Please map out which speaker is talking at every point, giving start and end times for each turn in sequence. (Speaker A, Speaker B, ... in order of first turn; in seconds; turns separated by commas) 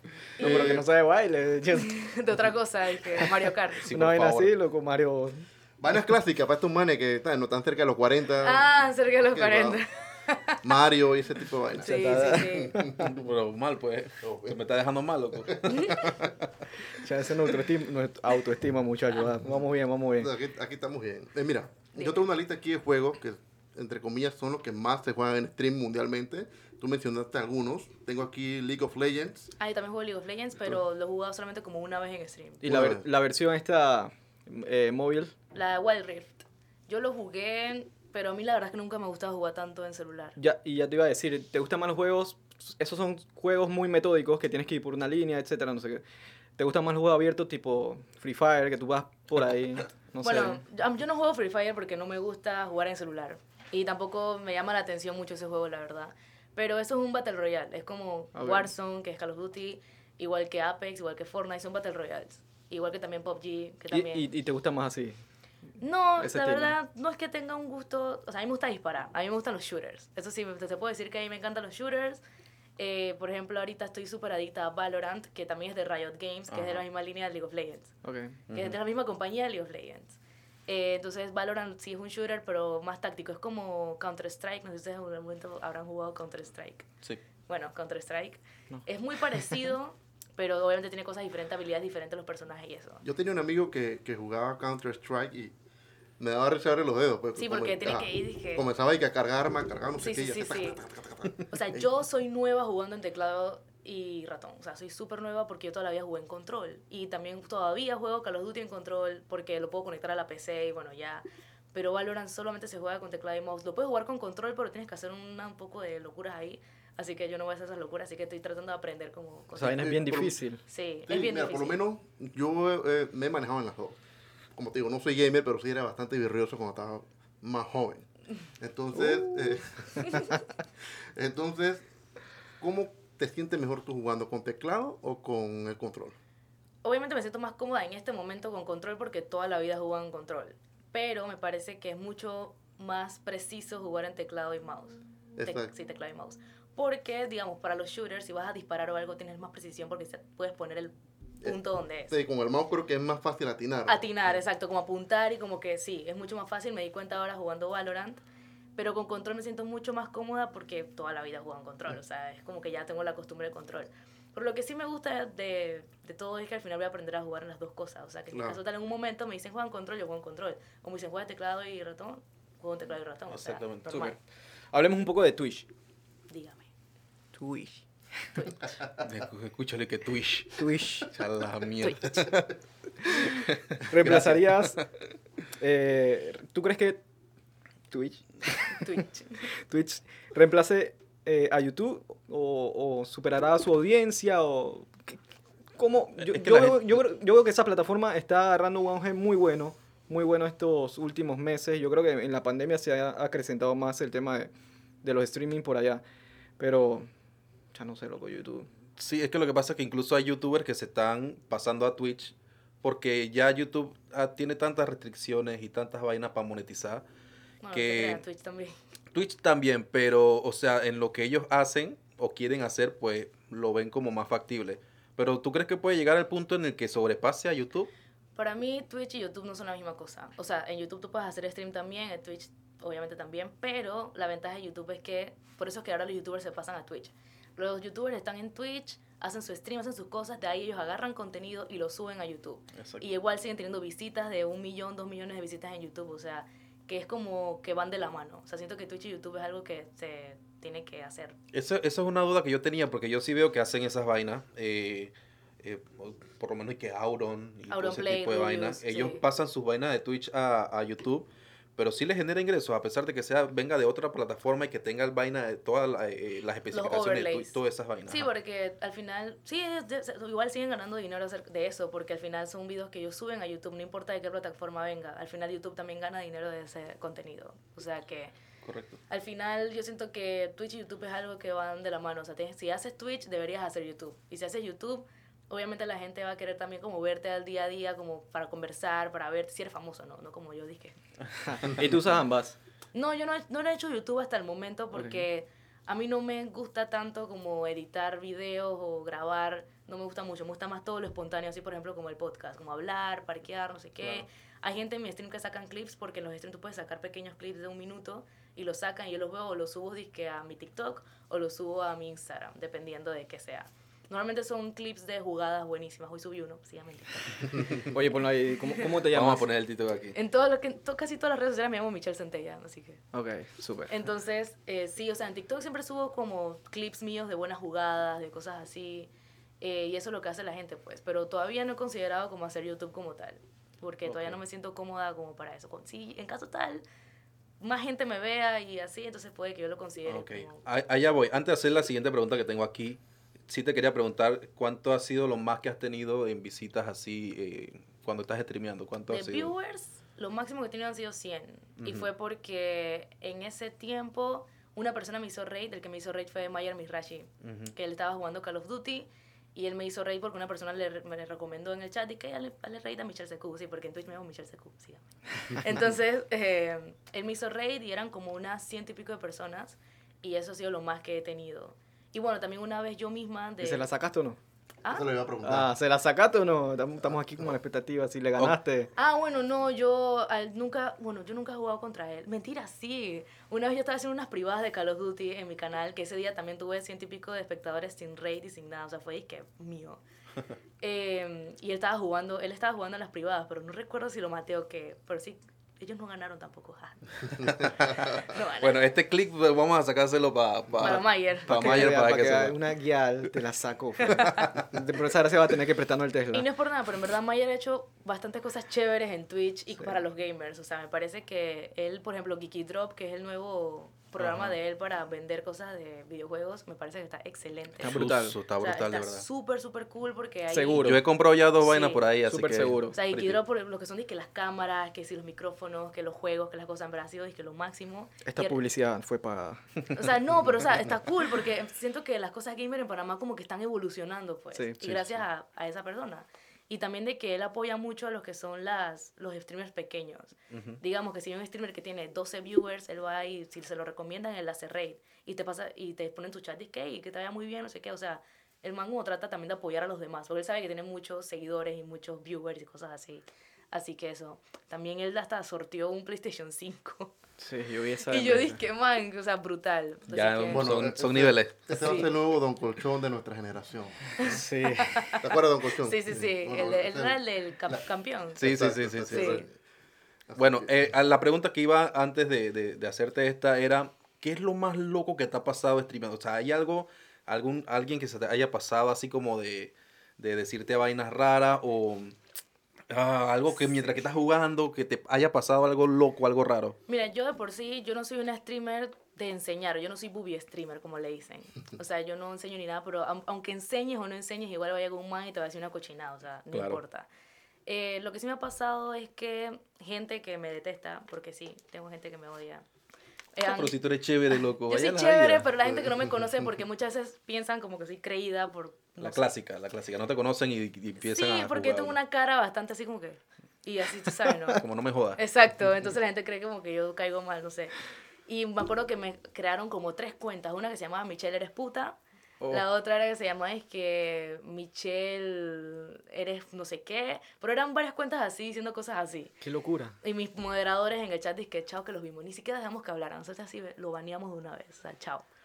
Speaker A: 0.4-0.8, Speaker B: 0.4-0.8, Speaker C: 0.4-2.0, Speaker A: 1.7-3.9, Speaker D: 3.8-4.5, Speaker C: 3.9-5.5, Speaker B: 5.8-8.7, Speaker A: 8.4-10.7, Speaker B: 9.3-9.8, Speaker B: 10.6-13.1, Speaker A: 11.7-12.9, Speaker C: 11.8-13.0, Speaker D: 13.0-16.3, Speaker B: 14.2-14.6, Speaker B: 15.3-16.3, Speaker A: 15.7-16.0, Speaker C: 16.9-20.3, Speaker B: 20.2-29.5, Speaker A: 21.9-22.2, Speaker A: 29.6-32.6, Speaker C: 32.6-35.3, Speaker B: 32.6-33.0, Speaker A: 35.5-40.4, Speaker C: 40.4-46.0, Speaker C: 46.6-50.6, Speaker A: 50.2-64.3, Speaker C: 58.3-58.7, Speaker C: 63.9-65.2, Speaker A: 65.8-72.2, Speaker C: 66.2-66.7, Speaker A: 72.8-77.9, Speaker D: 76.5-76.8, Speaker C: 78.0-78.4, Speaker D: 78.5-78.8, Speaker A: 78.5-86.9, Speaker A: 87.5-93.0, Speaker C: 88.7-89.7, Speaker B: 93.0-95.5, Speaker B: 96.2-101.8, Speaker A: 97.3-98.6, Speaker A: 100.0-100.8, Speaker A: 101.5-120.0, Speaker C: 119.5-120.6, Speaker B: 119.8-120.3, Speaker A: 120.7-121.8, Speaker B: 121.1-124.0, Speaker B: 124.5-128.1, Speaker B: 128.6-130.3, Speaker A: 130.0-130.3, Speaker B: 131.1-131.8, Speaker B: 132.6-136.2, Speaker A: 136.8-152.1, Speaker B: 145.4-145.7, Speaker B: 152.1-154.1, Speaker A: 153.9-158.2, Speaker A: 158.8-174.1, Speaker B: 168.3-168.6, Speaker D: 173.3-174.1, Speaker C: 173.9-174.2, Speaker C: 174.7-175.7, Speaker A: 176.3-176.7, Speaker C: 177.3-177.8, Speaker A: 178.3-178.8, Speaker D: 179.0-184.8, Speaker C: 180.6-181.1, Speaker C: 183.9-184.8, Speaker C: 185.6-187.0, Speaker C: 187.9-188.9, Speaker A: 188.7-189.4, Speaker C: 189.7-195.2, Speaker C: 195.8-204.5, Speaker D: 196.2-196.8, Speaker C: 205.0-206.0, Speaker C: 206.6-207.1, Speaker C: 207.7-208.7, Speaker D: 209.0-217.0, Speaker A: 217.6-218.8, Speaker D: 217.7-218.2, Speaker D: 219.1-227.9, Speaker A: 228.3-251.3, Speaker D: 242.7-243.0, Speaker D: 251.5-268.3, Speaker A: 257.7-259.2, Speaker A: 266.7-267.6, Speaker A: 268.1-278.3, Speaker D: 278.6-279.0, Speaker A: 279.1-291.0, Speaker C: 291.4-292.6, Speaker A: 292.9-317.7, Speaker C: 294.9-295.2, Speaker C: 317.8-319.5, Speaker D: 319.0-320.1, Speaker A: 320.1-323.0, Speaker C: 323.1-323.9, Speaker A: 323.9-336.8, Speaker D: 334.1-334.4, Speaker A: 337.6-340.6, Speaker D: 340.1-349.5, Speaker A: 349.1-373.8, Speaker D: 351.8-352.1, Speaker D: 357.4-357.7, Speaker C: 373.6-374.4, Speaker B: 374.9-375.7, Speaker C: 375.4-378.9, Speaker A: 378.9-390.0, Speaker A: 390.8-398.9, Speaker D: 397.4-402.6, Speaker A: 400.8-401.9, Speaker C: 401.4-406.4, Speaker A: 404.1-404.5, Speaker A: 406.3-418.0, Speaker D: 414.2-414.5, Speaker C: 417.8-418.4, Speaker D: 417.8-419.2, Speaker A: 418.6-421.0, Speaker C: 420.5-421.0, Speaker D: 420.8-423.4, Speaker A: 421.6-422.1, Speaker C: 422.3-422.9, Speaker A: 422.9-428.6, Speaker C: 428.2-429.8, Speaker A: 429.9-457.1, Speaker C: 434.5-434.8, Speaker D: 434.8-435.1, Speaker D: 440.5-440.8, Speaker C: 457.4-458.6, Speaker A: 458.1-460.6, Speaker D: 460.1-461.6, Speaker B: 460.5-464.1, Speaker A: 461.7-462.1, Speaker A: 464.2-468.4, Speaker C: 464.3-465.0, Speaker B: 465.2-467.8, Speaker D: 468.4-469.4, Speaker B: 468.4-469.5, Speaker A: 469.1-469.4, Speaker B: 470.3-470.7, Speaker D: 470.4-482.1, Speaker D: 482.9-486.8, Speaker A: 486.9-497.1, Speaker D: 496.5-496.8, Speaker A: 497.7-502.6, Speaker A: 503.3-503.7, Speaker D: 503.4-505.5, Speaker A: 504.3-509.3, Speaker D: 509.0-512.0, Speaker A: 511.0-514.6, Speaker D: 514.6-515.2, Speaker A: 515.2-517.7, Speaker A: 518.3-522.0, Speaker A: 522.5-529.3, Speaker C: 529.4-530.0, Speaker A: 530.0-535.2